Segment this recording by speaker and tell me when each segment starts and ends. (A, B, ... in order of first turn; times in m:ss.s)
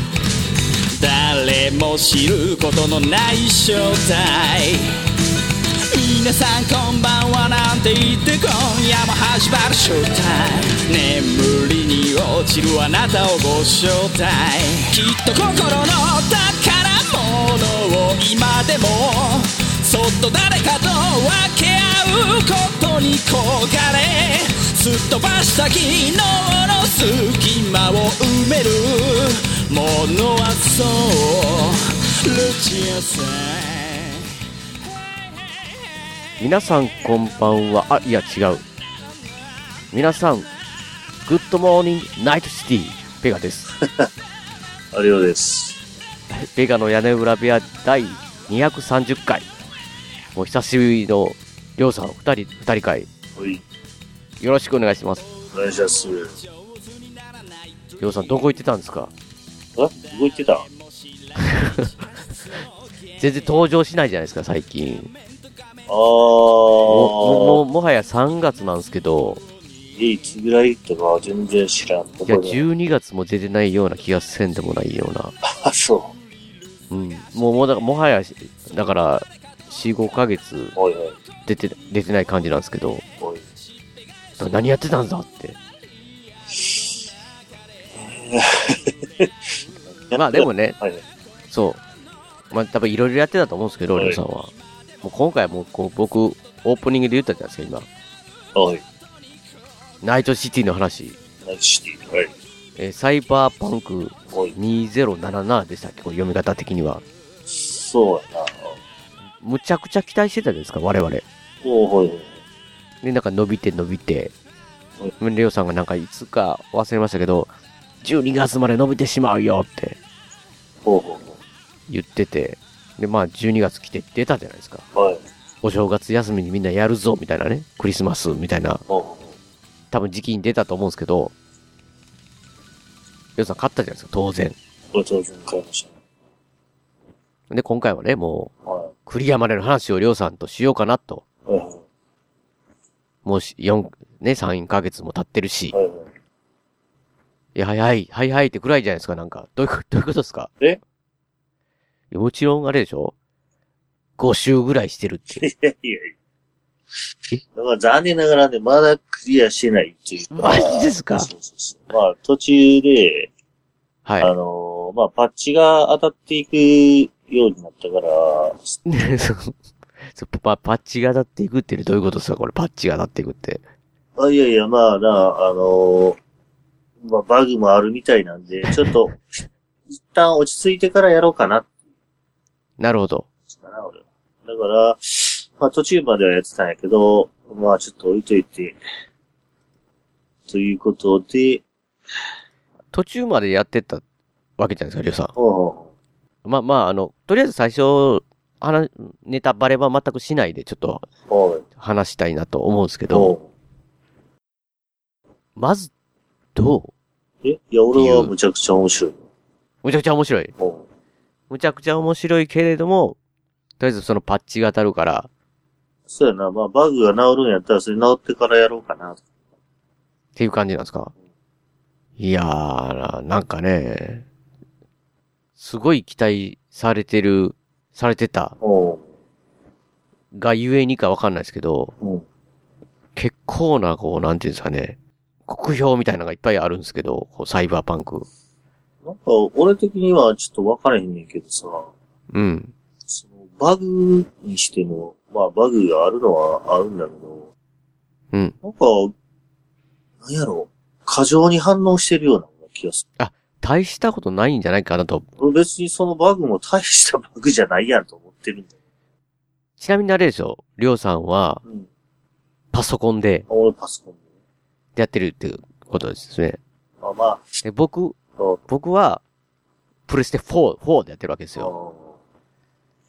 0:01.0-0:04.9 A
0:05.9-0:34.2 A
0:36.4-0:38.6 B
0:39.9-0:40.5 B
0:41.2-0:43.7 B
0:44.9-0:45.8 C
0:46.3-0:49.5 B
0:50.3-0:53.1 B
0:53.4-0:53.6 C
0:54.4-0:55.2 B
0:55.5-0:56.3 C
0:58.0-0:59.1 B
0:59.8-1:00.7 C
1:01.5-1:01.8 B
1:03.2-1:05.1 B
1:05.9-1:07.6 C
1:06.9-1:09.4 B
1:09.9-1:12.6 C
1:12.3-1:15.4 B
1:15.6-1:16.1 C
1:16.9-1:20.8 B
1:20.8-1:21.2 C
1:21.5-1:23.0 B
1:24.4-1:25.6 B
1:28.0-1:29.3 C
1:30.1-1:31.0 C
1:30.1-1:30.8 B
1:31.5-1:31.8 B
1:32.5-1:37.9 B
1:34.0-1:34.2 C
1:38.6-1:38.8 C
1:40.0-1:41.2 B
1:41.4-1:42.3 C
1:42.8-1:47.0 B
1:44.3-1:44.6 C
1:47.5-1:48.8 C
1:49.4-1:51.2 B
1:51.6-1:52.4 C
1:53.0-1:54.3 B
1:55.2-1:57.5 B
1:58.0-2:00.0 B
2:00.8-2:01.4 C
2:01.9-2:04.8 B
2:04.9-2:05.2 C
2:05.6-2:08.8 B
2:08.9-2:09.3 C
2:09.9-2:11.3 B
2:13.4-2:14.6 B
2:14.9-2:15.9 C
2:17.5-2:18.5 B
2:18.6-2:18.9 C
2:19.1-2:21.2 B
2:21.5-2:21.8 C
2:23.2-2:25.8 B
2:25.7-2:26.1 C
2:27.6-2:30.5 B
2:32.1-2:33.1 B
2:34.2-2:35.4 B
2:35.4-2:36.1 C
2:37.5-2:43.3 C
2:40.3-2:41.3 B
2:44.1-2:44.3 B
2:44.2-2:48.8 C
2:48.9-2:49.6 B
2:50.1-2:53.6 B
2:54.2-2:56.2 C
2:57.0-2:59.4 C
3:00.1-3:01.7 C
3:02.8-3:03.3 B
3:03.5-3:08.8 C
3:10.5-3:11.6 C
3:12.9-3:14.0 B
3:14.6-3:15.3 B
3:15.4-3:15.9 C
3:16.4-3:21.0 B
3:21.3-3:21.6 C
3:21.8-3:23.3 B
3:23.1-3:23.4 C
3:25.6-3:25.9 B
3:26.6-3:26.9 B
3:27.4-3:29.2 C
3:27.9-3:28.3 B
3:29.8-3:30.5 B
3:30.6-3:30.8 C
3:31.5-3:33.2 B
3:33.8-3:35.3 B
3:36.1-3:39.2 C
3:40.4-3:41.1 B
3:42.2-3:44.2 B
3:45.6-3:48.6 B
3:48.6-3:49.0 C
3:50.3-3:51.9 B
3:53.2-3:58.3 B
3:59.0-4:01.9 C
4:02.3-4:02.7 B
4:03.1-4:07.5 C
4:08.6-4:09.1 C
4:10.2-4:13.0 C
4:13.2-4:15.3 B
4:15.4-4:18.7 C
4:19.8-4:21.6 B
4:22.7-4:23.5 B
4:23.5-4:24.2 C
4:25.0-4:26.6 B
4:27.0-4:27.6 C
4:27.6-4:28.2 B
4:28.7-4:29.2 B
4:30.1-4:31.7 B
4:31.6-4:32.1 C